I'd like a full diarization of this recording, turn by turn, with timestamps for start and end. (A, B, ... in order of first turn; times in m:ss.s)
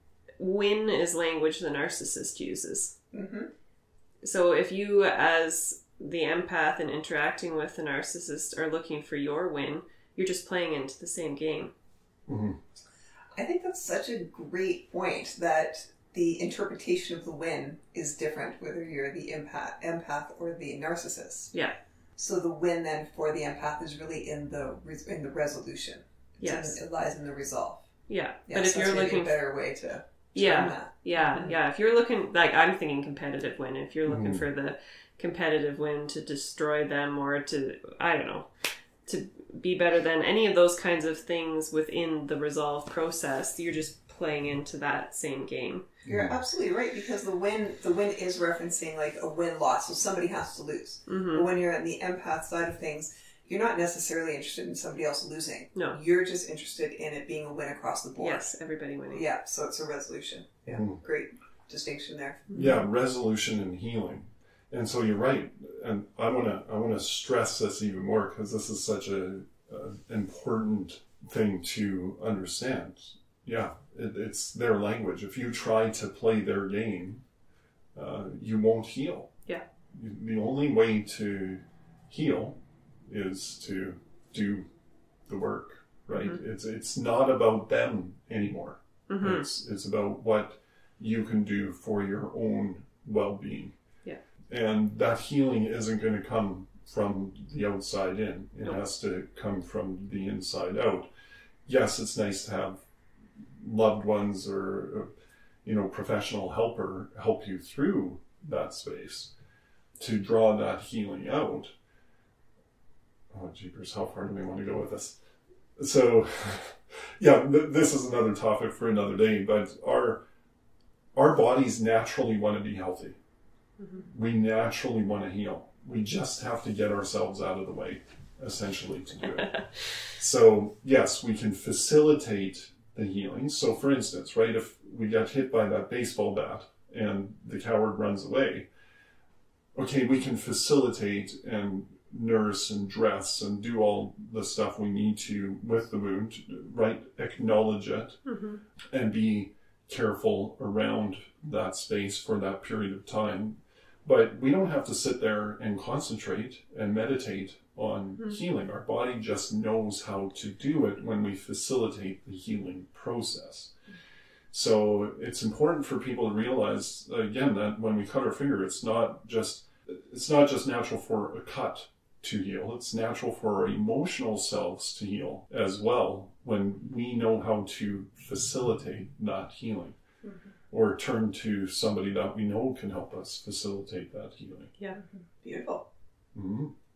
0:00.4-0:02.9 A
0:03.1-0:03.5 B
0:04.2-0:11.7 A
0:12.3-0:12.6 C
0:13.4-0:21.5 B
0:22.2-0:27.8 B
0:26.4-0:26.8 A
0:28.1-0:29.4 A
0:28.5-0:31.5 B
0:30.4-0:38.5 A
0:34.0-0:34.4 C
0:39.0-0:45.8 A
0:46.0-0:46.3 C
0:46.1-0:58.5 B
0:51.1-0:51.5 A
0:58.2-0:59.2 A
0:59.1-1:02.5 B
1:00.7-1:01.0 C
1:02.5-1:02.8 A
1:02.5-1:17.2 C
1:17.9-1:19.3 C
1:19.9-1:24.7 C
1:25.3-1:33.7 C
1:26.1-1:26.4 A
1:29.1-1:29.5 A
1:34.5-1:41.1 C
1:41.6-1:42.8 C
1:43.6-1:45.1 C
1:45.6-1:49.3 C
1:50.0-1:51.7 C
1:53.3-1:55.2 C
1:55.8-2:00.2 C
2:01.1-2:03.2 C
2:03.8-2:04.1 A
2:04.1-2:09.6 C
2:09.2-2:09.6 A
2:10.1-2:18.7 C
2:19.7-2:28.2 C
2:28.2-2:28.6 A
2:28.9-2:43.7 C
2:44.5-3:00.0 C
3:00.2-3:00.5 B
3:00.7-3:04.7 C
3:05.0-3:05.8 B
3:06.3-3:06.7 C